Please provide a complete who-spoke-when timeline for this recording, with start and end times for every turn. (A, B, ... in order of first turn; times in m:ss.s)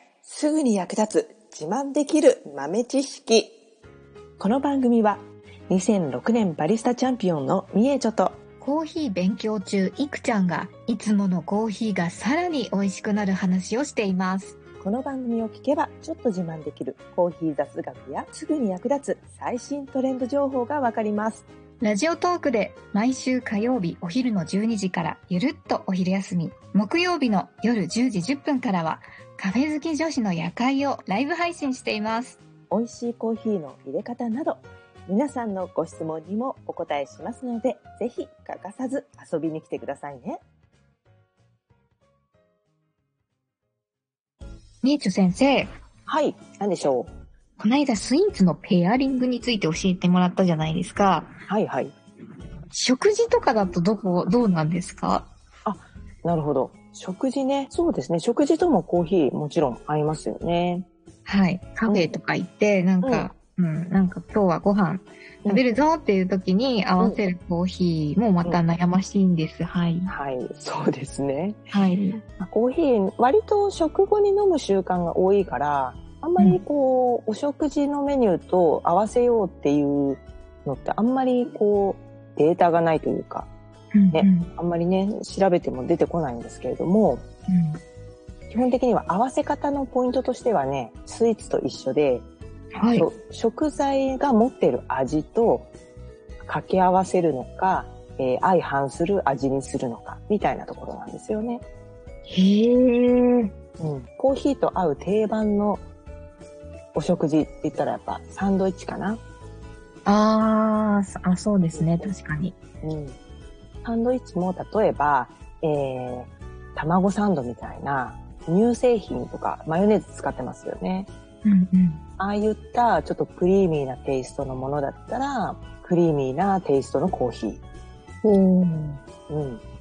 0:00.2-0:03.5 A
0:04.4-0:08.4 A
0:08.6-0:14.6 B
0:14.8-0:21.4 A
0:21.8-0:32.4 B
0:32.7-0:40.4 A
0:44.8-0:45.7 B
0:46.1-0:47.1 A
0:47.6-0:51.3 B
0:51.5-0:51.9 A
0:52.7-0:55.3 B
0:55.6-1:00.8 A
1:01.2-1:10.1 B
1:01.9-1:02.1 A
1:03.0-1:03.3 A
1:10.1-1:11.6 A
1:11.7-1:12.2 B
1:12.2-1:23.5 A
1:16.4-1:16.6 B
1:23.9-1:24.5 B
1:24.1-1:27.2 A
1:27.5-1:27.8 B
1:28.5-1:32.3 A
1:32.7-1:33.1 B
1:32.9-1:35.7 A
1:36.4-1:41.6 A
1:42.3-1:43.5 B
1:43.8-1:45.8 A
1:46.9-1:49.2 A
1:50.0-1:52.6 B
1:51.7-1:52.1 A
1:52.8-1:53.2 A
1:53.8-2:01.1 A
2:01.4-2:02.0 B
2:02.2-2:07.6 A
2:08.2-2:09.0 B
2:09.3-2:09.6 A